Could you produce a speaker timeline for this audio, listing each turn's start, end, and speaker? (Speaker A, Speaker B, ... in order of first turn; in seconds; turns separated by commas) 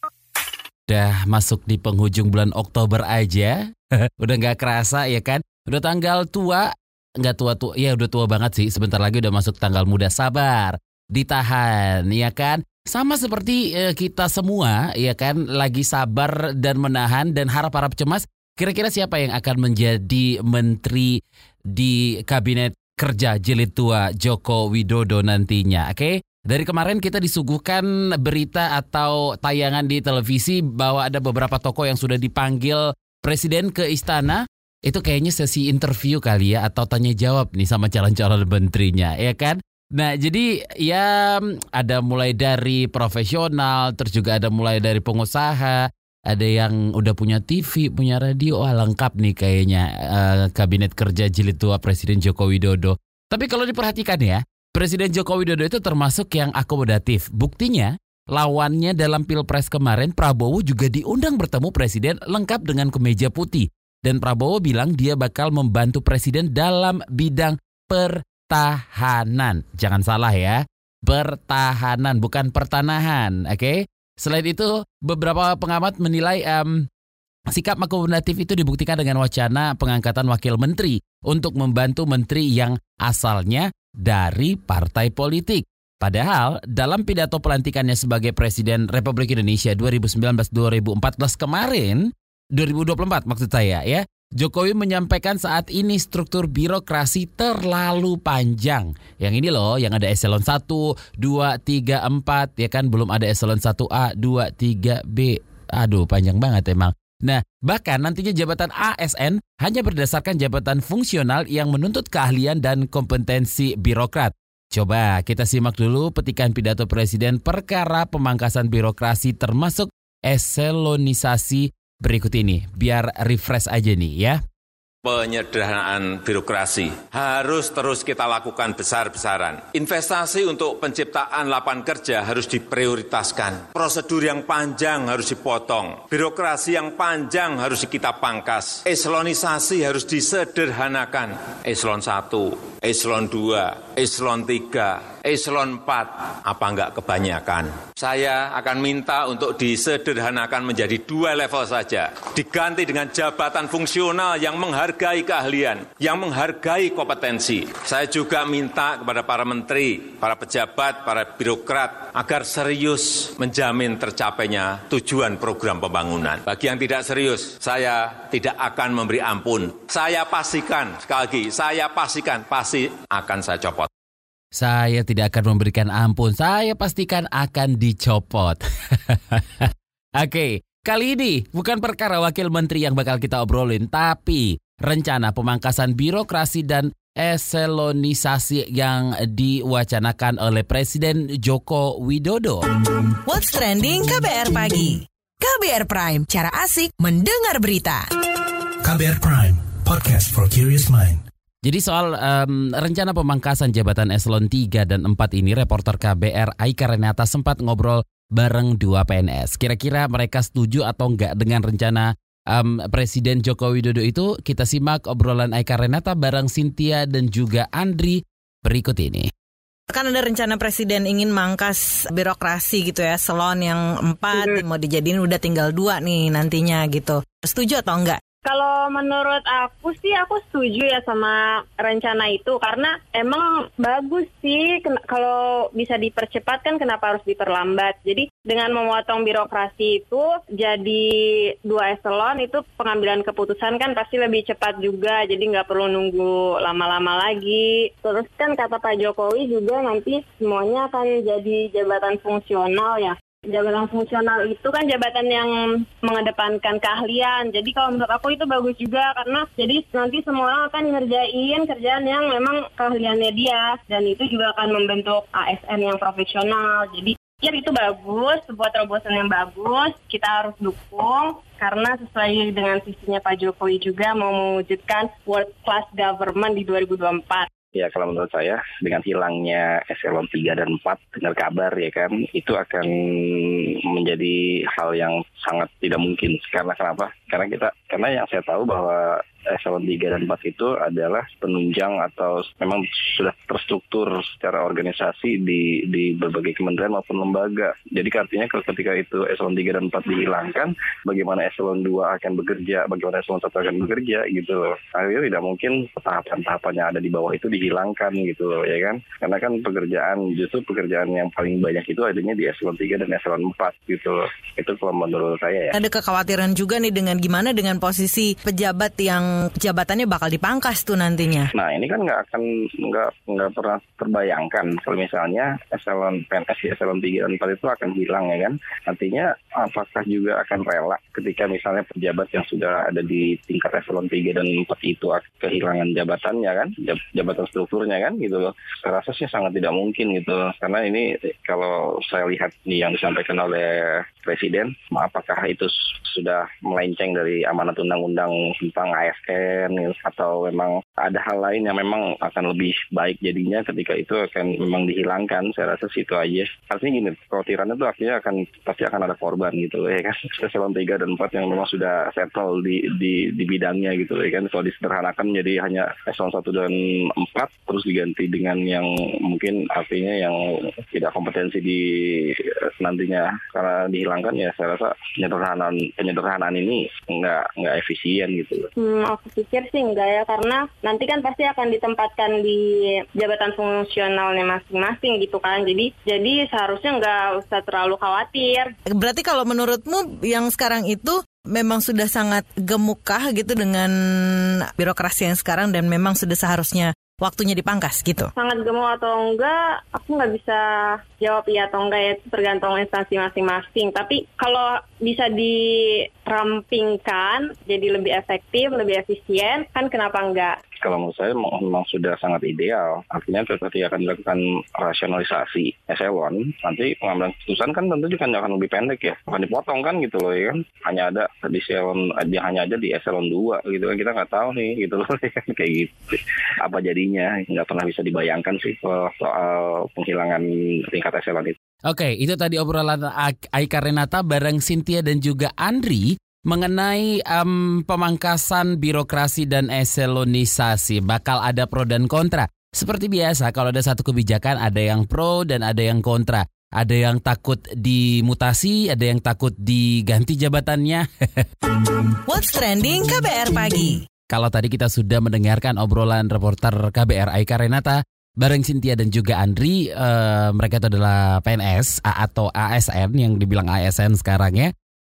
Speaker A: 0.9-3.6, Speaker A: 4.2-6.7, Speaker A: 7.2-21.2, Speaker A: 21.7-76.8, Speaker A: 77.5-124.4, Speaker B: 125.2-173.8, Speaker A: 174.6-179.7, Speaker A: 180.2-192.6, Speaker C: 193.3-198.1, Speaker D: 198.8-201.2, Speaker A: 201.6-219.3, Speaker C: 219.9-228.2, Speaker E: 228.4-241.1, Speaker E: 241.7-277.5, Speaker F: 277.8-315.7, Speaker C: 315.8-321.5, Speaker F: 321.6-370.4, Speaker F: 370.9-371.8, Speaker F: 372.8-378.7, Speaker E: 378.8-388.7, Speaker C: 389.0-398.3, Speaker E: 398.4-410.6, Speaker F: 410.8-425.9, Speaker F: 426.6-431.6, Speaker A: 431.9-451.4, Speaker C: 452.3-454.0, Speaker A: 454.3-464.7